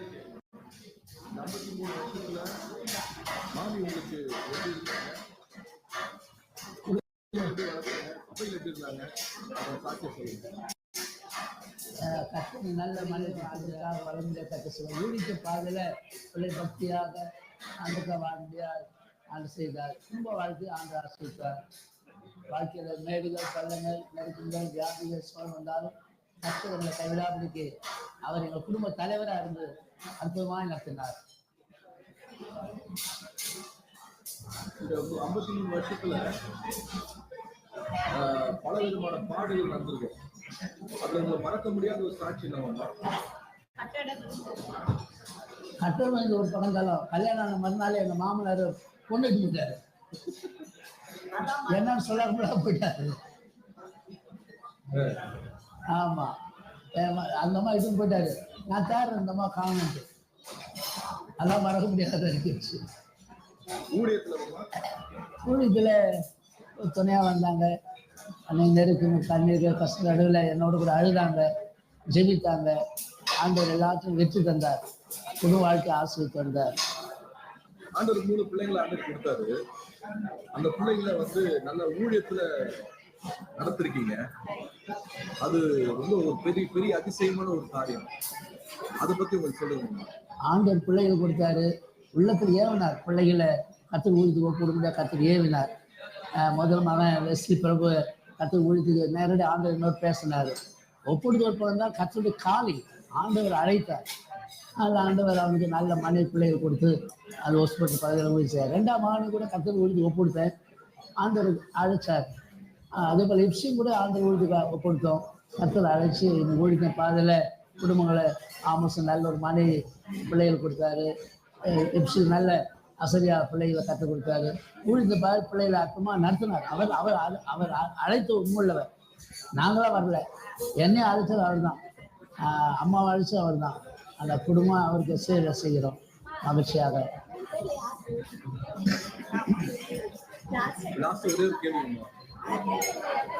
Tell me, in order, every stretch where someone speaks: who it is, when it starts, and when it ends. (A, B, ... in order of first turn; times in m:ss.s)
0:01.3-0:02.5 A
0:03.5-0:05.2 A
0:06.9-0:10.5 A
0:12.0-0:17.2 B
0:17.8-0:21.6 B
0:22.5-0:27.7 B
0:28.2-0:29.7 B
0:30.2-0:31.2 B
0:34.8-0:36.3 A
0:38.1-0:40.2 A
0:41.0-0:43.0 A
0:45.8-0:49.8 B
0:51.4-0:53.2 B
0:54.9-0:55.3 A
0:55.9-0:56.3 B
0:57.0-1:00.0 B
1:01.4-1:02.8 B
1:03.9-1:04.7 A
1:05.4-1:06.0 B
1:06.8-1:07.7 B
1:08.5-1:11.4 B
1:12.1-1:12.7 B
1:13.4-1:14.8 B
1:15.4-1:16.7 B
1:18.0-1:19.5 A
1:20.5-1:22.4 A
1:23.6-1:24.2 A
1:25.4-1:28.1 A
1:29.0-1:30.1 A
1:30.5-1:35.7 B
1:36.4-1:40.6 B
1:41.1-1:44.0 B
1:44.8-1:50.5 B
1:51.2-1:52.3 B
1:53.0-1:59.7 B
2:00.2-2:01.1 B
2:01.7-2:08.9 B
2:09.6-2:10.2 B
2:10.8-2:11.8 B
2:12.4-2:17.0 B
2:20.8-2:22.1 A